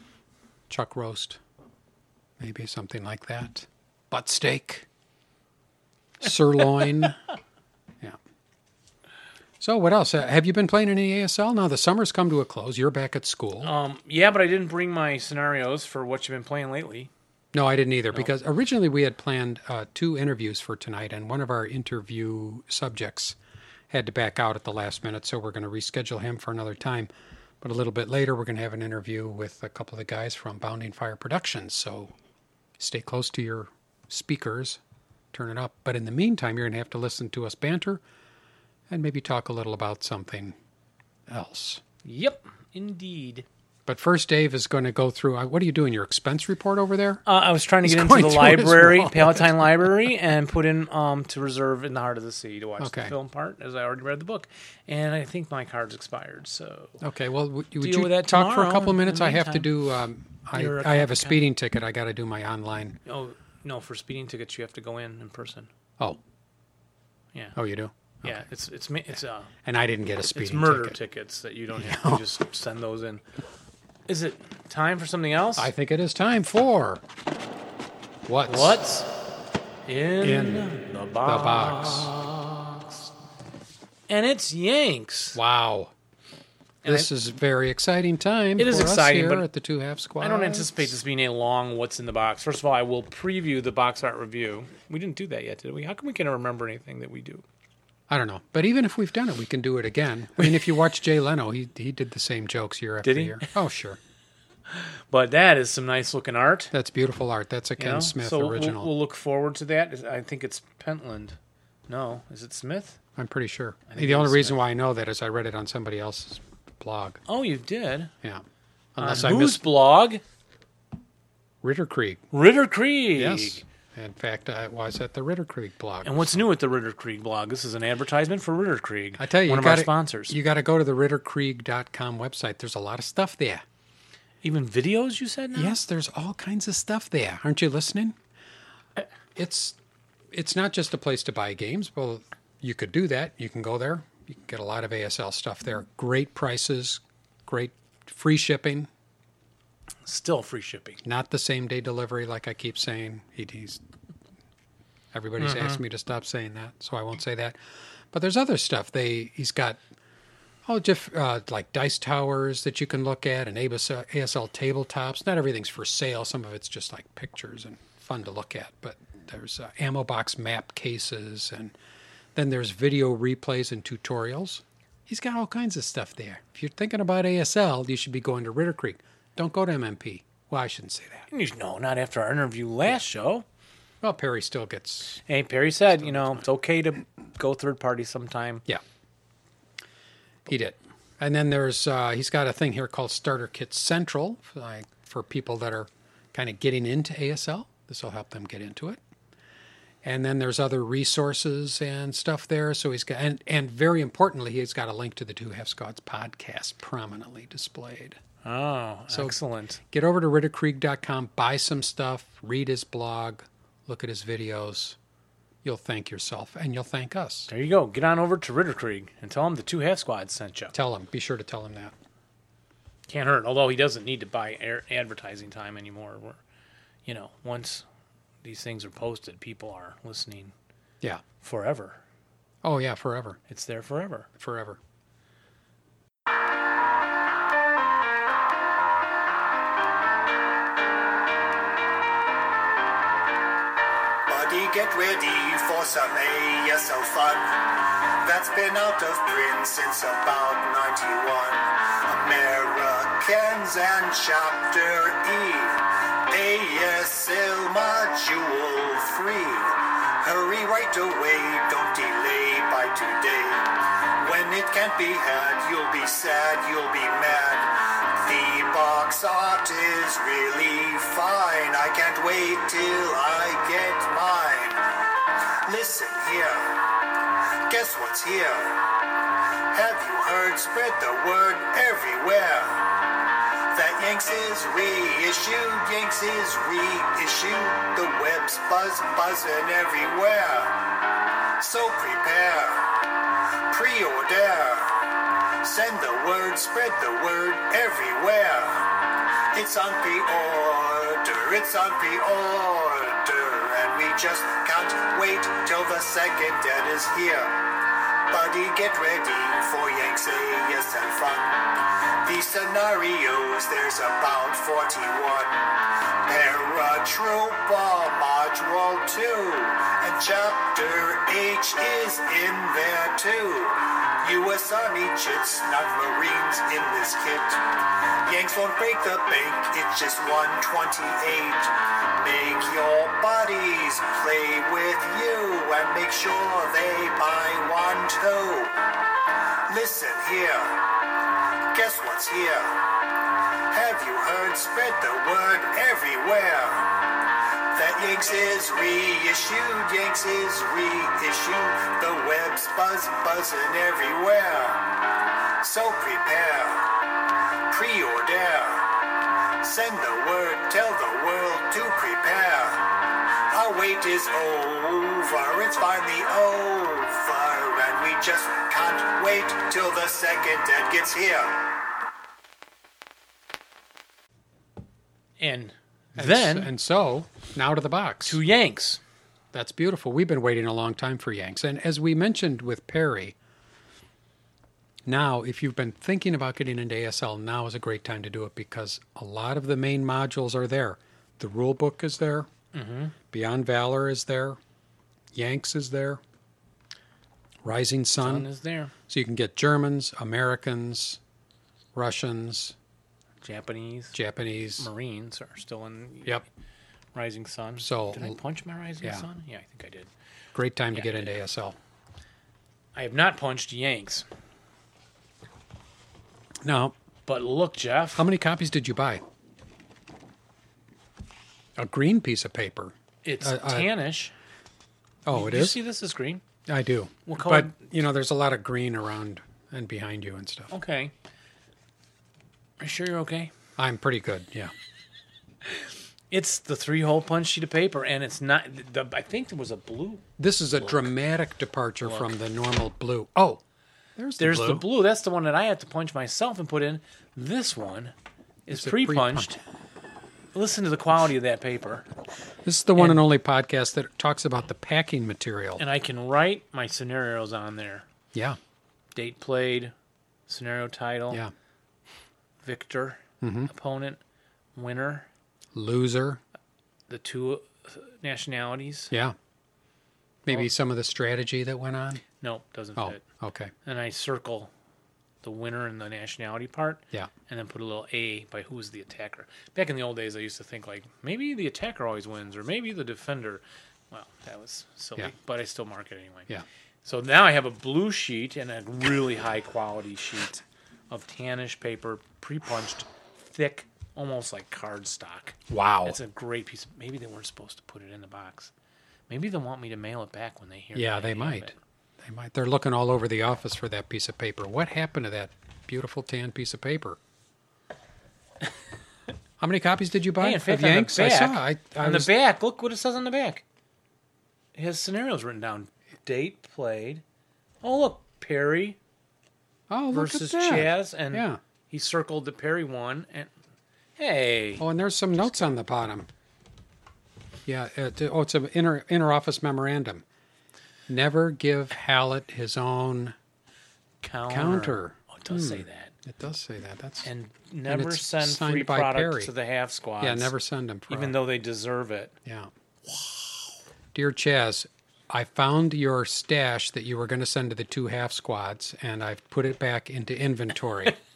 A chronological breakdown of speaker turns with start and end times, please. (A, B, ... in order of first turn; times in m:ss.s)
0:00.7-0:01.4 A
0:02.4-0:04.9 A
0:06.2-0:07.2 A
0:09.6-0:13.7 A
0:13.6-0:17.1 B
0:17.5-0:23.4 A
0:23.9-0:27.1 A
0:27.6-0:32.1 A
0:32.8-0:34.8 A
0:35.3-0:38.0 A
0:38.9-0:40.6 A
0:41.3-0:41.8 A
0:42.0-0:43.4 B
0:43.9-0:47.2 A
0:47.2-0:57.0 B
0:47.8-0:49.6 A
0:52.8-0:53.1 A
0:57.0-1:03.0 A
0:57.8-0:59.7 B
1:00.5-1:01.4 B
1:03.1-1:05.7 B
1:07.5-1:08.4 A
1:08.2-1:09.5 B
1:09.6-1:11.0 A
1:10.3-1:13.2 B
1:11.8-1:12.2 A
1:14.1-1:15.7 B
1:15.6-1:17.0 A
1:18.3-1:18.8 A
1:18.5-1:19.2 B
1:19.9-1:23.1 B
1:20.2-1:20.7 A
1:21.2-1:22.1 A
1:24.1-1:25.4 B
1:25.3-1:25.9 A
1:26.8-1:30.9 A
1:28.6-1:29.4 B
1:30.2-1:37.4 B
1:38.1-1:44.0 A
1:40.4-1:40.6 B
1:43.0-1:43.5 B
1:44.7-1:46.7 B
1:46.7-1:48.9 A
1:47.8-1:51.4 B
1:51.9-1:53.0 B
1:53.2-1:57.2 A
1:53.9-1:54.6 B
1:57.3-1:58.1 B
1:58.9-1:59.6 A
1:59.0-2:00.2 B
2:01.6-2:02.2 A
2:02.3-2:03.6 B
2:03.2-2:06.4 A
2:06.0-2:10.4 B
2:09.2-2:13.6 A
2:14.4-2:15.8 B
2:15.5-2:18.2 A
2:19.4-2:19.8 A
2:20.3-2:28.9 A
2:30.0-2:31.0 B
2:31.0-2:33.8 A
2:35.1-2:37.6 A
2:35.4-2:35.8 B
2:38.1-2:39.8 A
2:40.6-2:51.8 A
2:52.3-3:01.3 A
3:01.3-3:03.4 B
3:04.0-3:05.2 A
3:05.3-3:08.6 B
3:05.9-3:06.4 A
3:10.5-3:19.0 A
3:20.0-3:28.2 A
3:28.4-3:29.8 B
3:29.1-3:29.4 A
3:29.9-3:35.0 A
3:35.6-3:37.5 A
3:37.5-3:40.7 B
3:40.7-3:41.9 A
3:43.1-3:46.4 B
3:47.1-3:47.8 B
3:48.4-3:50.5 B
3:51.4-3:52.0 B
3:52.6-3:53.4 A
3:53.5-3:54.3 B
3:54.4-3:54.8 A
4:04.3-4:34.8 C
4:35.7-4:36.9 C
4:37.7-4:39.0 C
4:39.7-4:43.0 C
4:43.7-4:50.9 C
4:51.6-4:53.2 C
4:53.7-5:38.8 C
5:39.7-5:41.1 C
5:41.7-5:43.0 C
5:43.7-5:47.1 C
5:47.7-5:55.1 C
5:55.6-5:57.1 C
5:57.7-6:11.8 C
6:15.4-6:16.7 B
6:16.2-6:18.4 A
6:18.2-6:19.0 B
6:19.5-6:23.4 A
6:25.1-6:32.5 A
6:32.7-6:33.1 B
6:33.3-6:34.6 A
6:35.3-6:36.2 A
6:37.6-6:38.5 A
6:38.2-6:38.9 B
6:39.1-6:41.2 A
6:41.9-6:42.8 A
6:43.4-6:44.2 B
6:44.1-6:44.9 A
6:44.8-6:46.4 B
6:47.1-6:50.1 B
6:47.8-6:48.4 A
6:50.6-6:51.8 A
6:50.9-6:51.3 B
6:52.9-6:54.2 B
6:56.6-6:56.9 A
6:57.3-6:58.3 B
6:58.2-6:59.2 A
7:01.8-7:03.9 A
7:03.2-7:04.3 B
7:05.2-7:05.8 A
7:05.3-7:06.4 B
7:06.7-7:10.7 A
7:07.3-7:07.8 B
7:10.7-7:11.1 B
7:12.8-7:13.5 B
7:13.8-7:14.7 A
7:15.6-7:20.2 B
7:20.4-7:23.6 A
7:20.8-7:21.1 B
7:22.0-7:22.3 B
7:24.2-7:24.8 A
7:24.4-7:28.1 B
7:28.7-7:29.6 B
7:28.7-7:29.5 A
7:30.5-7:32.1 B
7:32.6-7:35.8 A
7:33.0-7:33.2 B
7:35.8-7:38.0 B
7:39.1-7:39.9 B
7:40.5-7:41.4 B
7:42.6-7:44.2 B
7:43.4-7:43.7 A
7:44.8-7:45.3 B
7:45.7-7:46.4 A
7:47.1-7:49.1 B
7:49.1-7:49.4 A
7:50.4-7:52.2 A
7:52.4-7:53.2 B
7:53.0-7:53.7 A
7:53.8-7:54.7 B
7:55.4-8:06.5 B
8:07.0-8:18.7 B
8:15.7-8:16.2 A
8:19.3-8:21.7 B
8:20.9-8:27.2 A
8:29.6-8:32.3 A
8:30.4-8:33.6 B
8:34.7-8:37.2 B
8:37.8-8:39.0 B
8:39.9-8:41.6 A
8:40.1-8:43.5 B
8:44.2-8:44.9 B
8:44.8-8:46.3 A
8:47.6-8:50.2 A
8:51.1-8:53.4 A
8:54.2-8:56.1 B
8:54.5-8:57.3 A
8:57.2-9:00.5 B
8:57.9-8:59.5 A
9:00.2-9:01.4 A
9:01.1-9:02.4 B
9:02.4-9:02.7 A
9:03.1-9:03.6 B
9:04.1-9:11.2 A